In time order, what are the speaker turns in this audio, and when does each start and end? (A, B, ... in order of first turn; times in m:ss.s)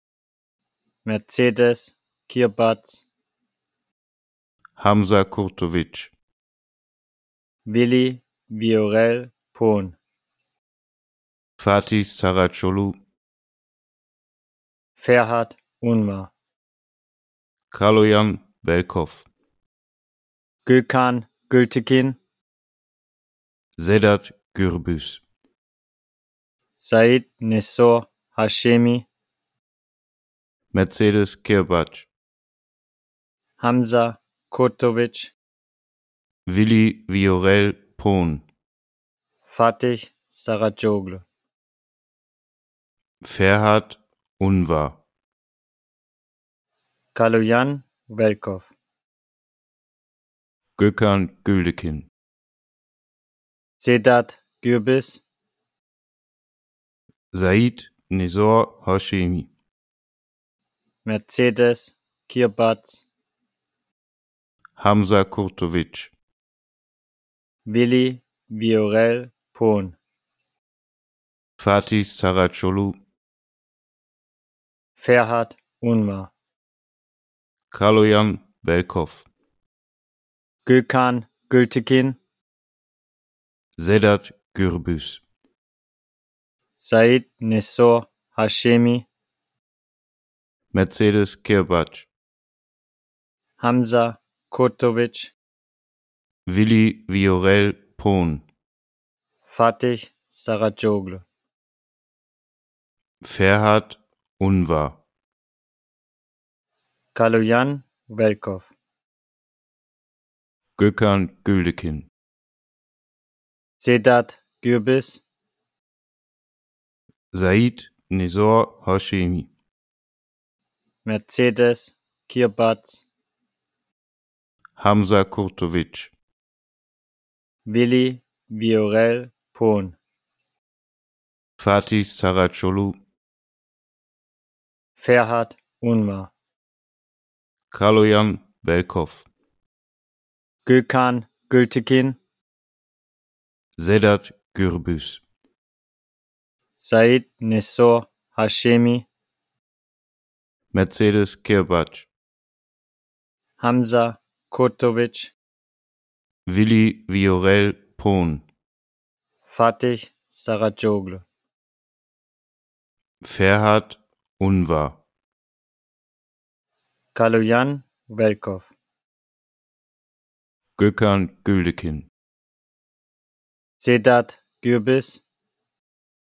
0:01.0-0:03.0 A
0:04.8-0:06.1 B
0:07.7-0:10.0 A
0:11.6-0:13.0 B
0:15.0-0:16.3 A
0:17.7-0:19.3 B
0:20.7-0:22.2 A
0:23.8-0:25.2 B
0:26.8-0:29.1 A
0:30.7-0:32.1 B
0:33.6-0:35.3 A
0:36.5-0:38.4 B
0:39.5-0:41.2 A
0:43.2-0:45.0 B
0:47.2-0:48.7 A
0:50.8-0:52.1 B
0:53.8-0:55.2 A
0:57.3-0:59.5 B
1:01.0-1:03.0 A
1:04.8-1:06.1 B
1:07.7-1:10.0 A
1:11.6-1:13.0 B
1:15.0-1:16.3 A
1:17.7-1:19.3 B
1:20.7-1:22.2 A
1:23.8-1:25.2 B
1:26.8-1:29.1 A
1:30.7-1:32.1 B
1:33.6-1:35.4 A
1:36.5-1:38.4 B
1:39.5-1:41.2 A
1:43.2-1:45.0 B
1:47.2-1:48.7 A
1:50.8-1:52.1 B
1:53.8-1:55.2 A
1:57.3-1:59.5 B
2:01.0-2:03.0 A
2:04.8-2:06.1 B
2:07.7-2:10.0 A
2:11.6-2:13.0 B
2:15.0-2:16.3 A
2:17.7-2:19.3 B
2:20.7-2:22.2 A
2:23.8-2:25.2 B
2:26.8-2:29.1 A
2:30.7-2:32.1 B
2:33.6-2:35.3 A
2:36.5-2:38.4 B
2:39.5-2:41.2 A
2:43.2-2:45.0 B
2:47.2-2:48.7 A
2:50.8-2:52.1 B
2:53.8-2:55.2 A